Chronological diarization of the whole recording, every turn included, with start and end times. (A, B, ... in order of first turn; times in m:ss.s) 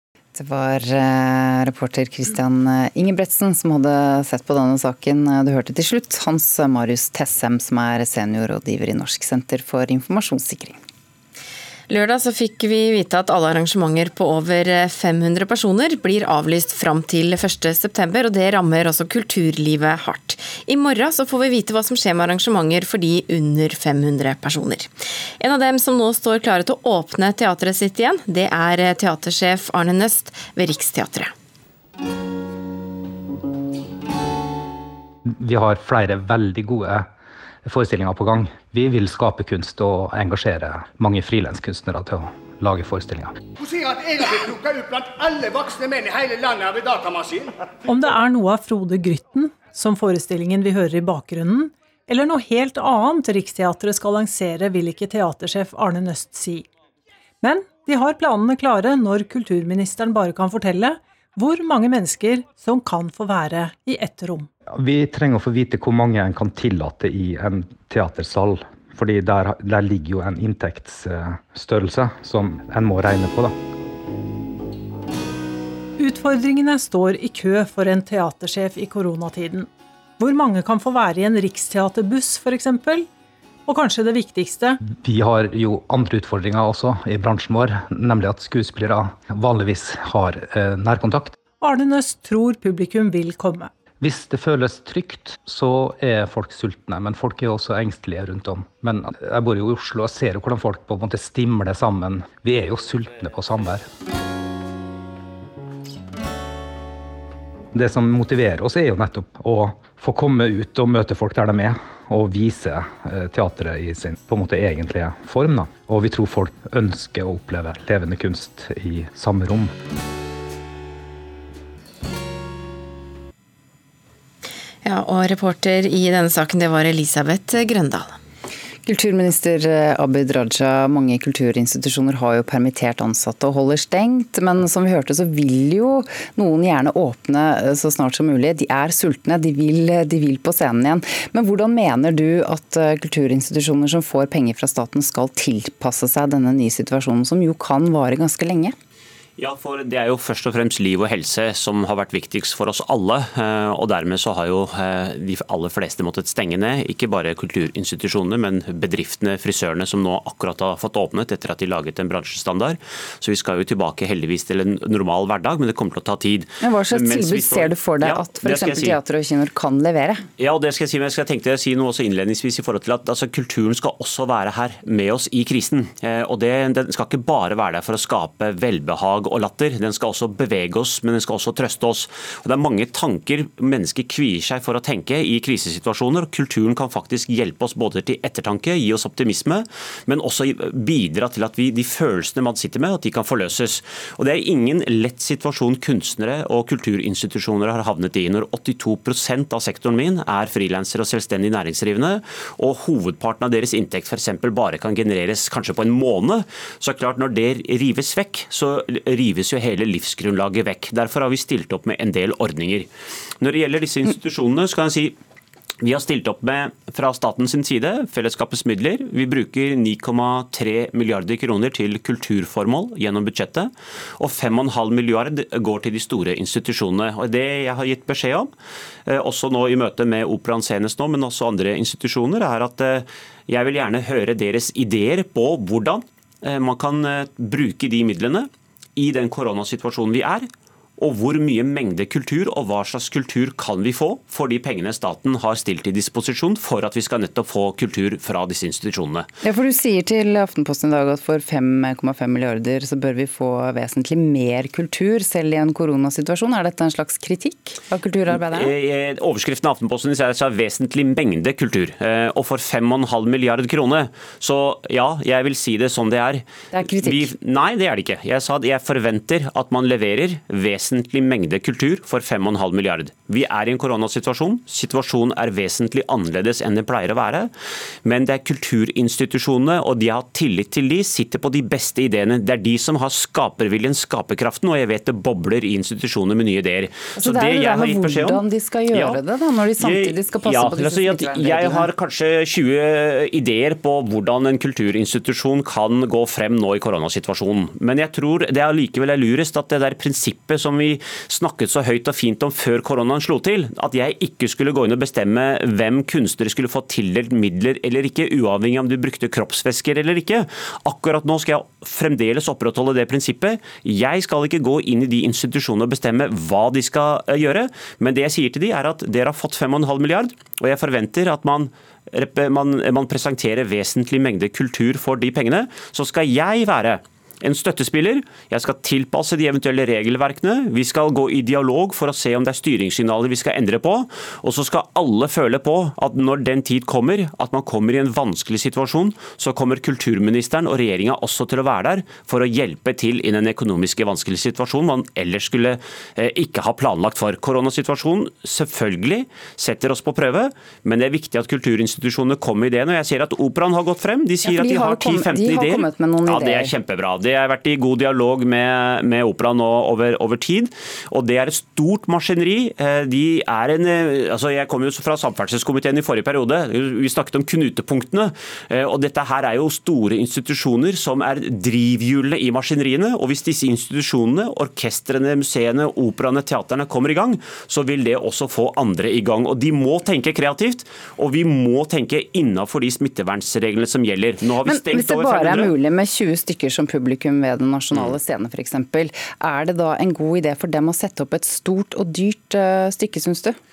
0:00.3-0:10.8 A
0:11.9-0:31.3 B
0:35.4-0:37.1 C
0:37.6-0:43.4 C
0:43.8-0:47.5 D
0:47.8-0:56.7 E
0:57.4-1:04.5 E
1:04.8-1:13.5 C
1:16.0-1:19.7 E
1:20.2-1:23.1 E
1:23.7-1:24.8 E
1:25.0-1:31.4 C
1:31.6-1:33.7 E
1:34.0-1:43.8 C
1:47.7-1:59.7 C
2:04.8-2:08.2 B
2:08.8-2:28.7 A
2:29.4-2:49.0 F
2:46.6-2:50.2 A
2:50.4-3:32.9 F
3:33.4-3:35.1 F
3:35.8-3:48.5 F
3:49.1-4:00.4 F
4:01.0-4:09.3 F
4:09.4-4:18.7 A
4:18.3-4:37.5 F
4:26.7-4:27.3 A
4:38.0-4:49.2 F
4:47.2-4:51.9 A
4:49.8-6:25.7 F
5:54.4-5:56.7 A
6:24.6-6:33.6 A